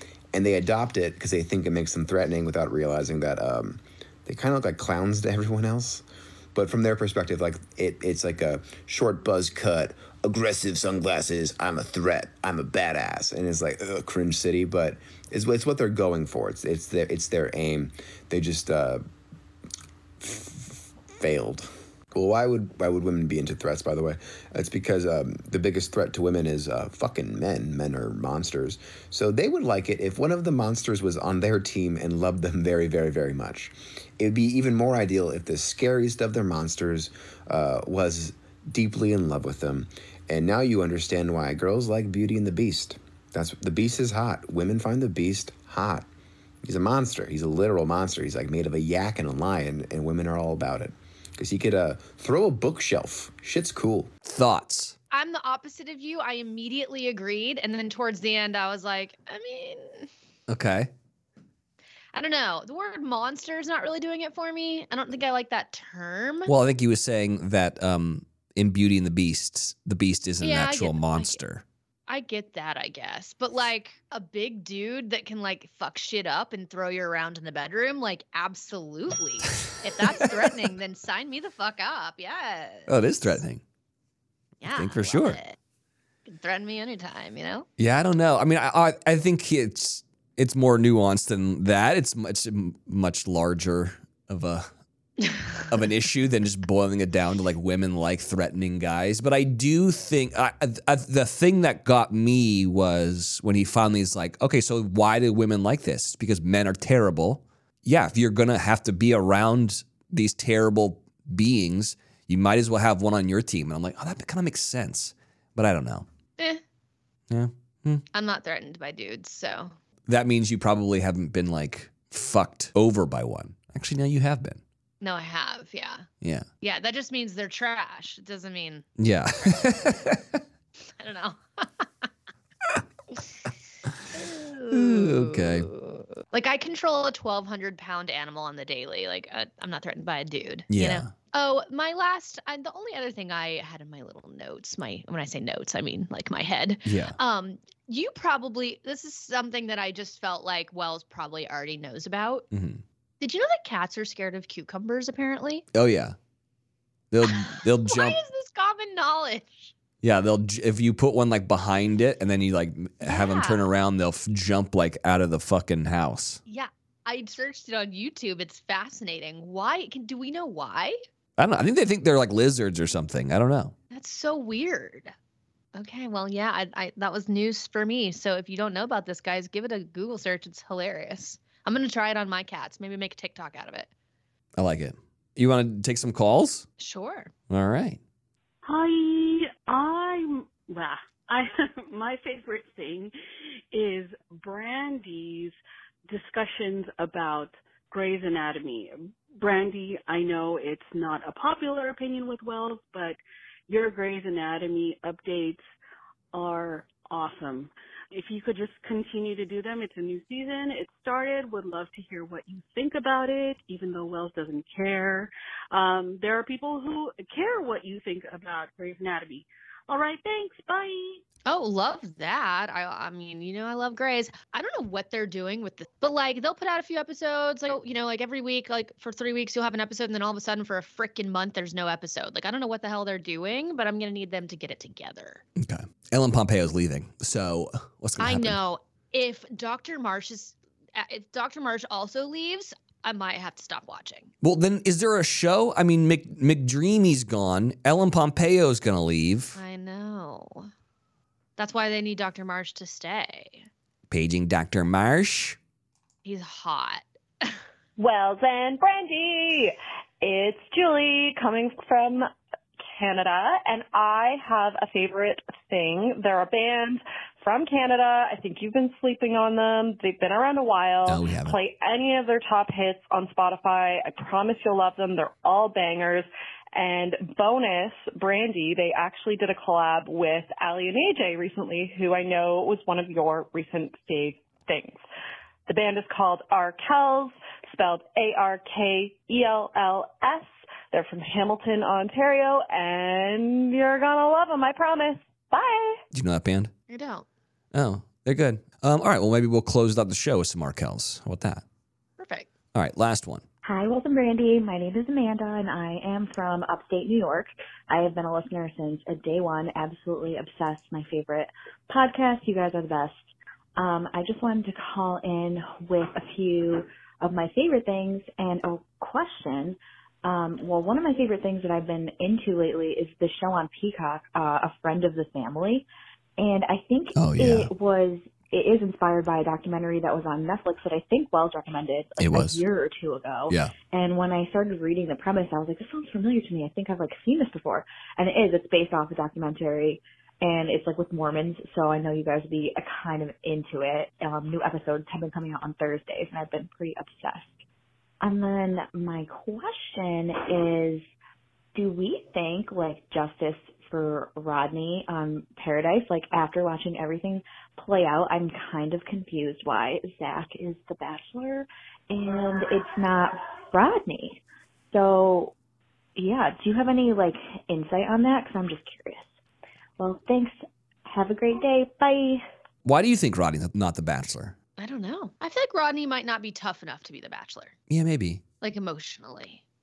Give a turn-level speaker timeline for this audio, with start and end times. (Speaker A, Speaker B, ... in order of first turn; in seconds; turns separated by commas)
Speaker A: 0.3-19.0, Speaker A: 20.2-46.1, Speaker A: 46.6-54.1, Speaker B: 54.2-55.0, Speaker C: 55.1-60.1, Speaker B: 60.5-60.9, Speaker C: 62.1-66.5, Speaker B: 66.5-71.6, Speaker C: 70.4-71.4, Speaker C: 72.1-82.9, Speaker B: 80.1-80.5, Speaker B: 82.9-83.6, Speaker C: 84.6-85.6, Speaker B: 84.7-85.4, Speaker C: 86.3-87.7, Speaker B: 87.8-94.7, Speaker B: 95.7-116.1, Speaker B: 117.3-118.0, Speaker C: 118.1-119.8, Speaker B: 120.1-124.6, Speaker C: 125.0-126.1, Speaker B: 126.2-126.5, Speaker C: 126.6-128.9, Speaker B: 129.0-130.4, Speaker C: 131.0-132.1, Speaker C: 134.1-152.5, Speaker B: 134.7-135.7, Speaker B: 140.7-141.1, Speaker B: 146.8-147.2, Speaker B: 152.5-152.8, Speaker C: 153.2-155.7, Speaker B: 155.7-156.2, Speaker B: 157.1-158.2, Speaker C: 157.2-159.7, Speaker B: 160.0-166.4, Speaker C: 163.0-163.7, Speaker C: 166.5-171.0, Speaker B: 171.4-173.7, Speaker C: 173.9-175.1, Speaker C: 175.7-183.9, Speaker B: 184.6-186.7, Speaker C: 186.8-187.3, Speaker B: 187.5-188.0, Speaker D: 188.7-193.1, Speaker D: 193.7-195.6, Speaker D: 196.1-205.6, Speaker D: 206.3-221.2, Speaker C: 221.5-235.4, Speaker B: 235.6-238.6, Speaker C: 238.2-244.3, Speaker B: 244.4-249.6, Speaker C: 249.6-250.7, Speaker C: 251.6-253.7, Speaker B: 254.1-255.6, Speaker C: 256.2-257.6, Speaker E: 258.0-262.3, Speaker E: 262.9-285.0, Speaker B: 271.1-271.6, Speaker E: 285.7-296.0, Speaker B: 296.1-296.7, Speaker C: 296.9-297.3, Speaker B: 297.7-301.6, Speaker C: 302.2-302.5, Speaker B: 302.7-303.4, Speaker F: 303.6-313.2, Speaker F: 313.8-347.6, Speaker B: 327.1-327.7, Speaker B: 332.2-332.6, Speaker F: 348.2-351.0, Speaker F: 351.8-364.4, Speaker F: 364.9-365.5, Speaker F: 366.2-369.3, Speaker F: 370.0-372.4, Speaker B: 372.9-374.6, Speaker C: 374.8-377.8, Speaker B: 377.9-378.4, Speaker C: 378.6-379.6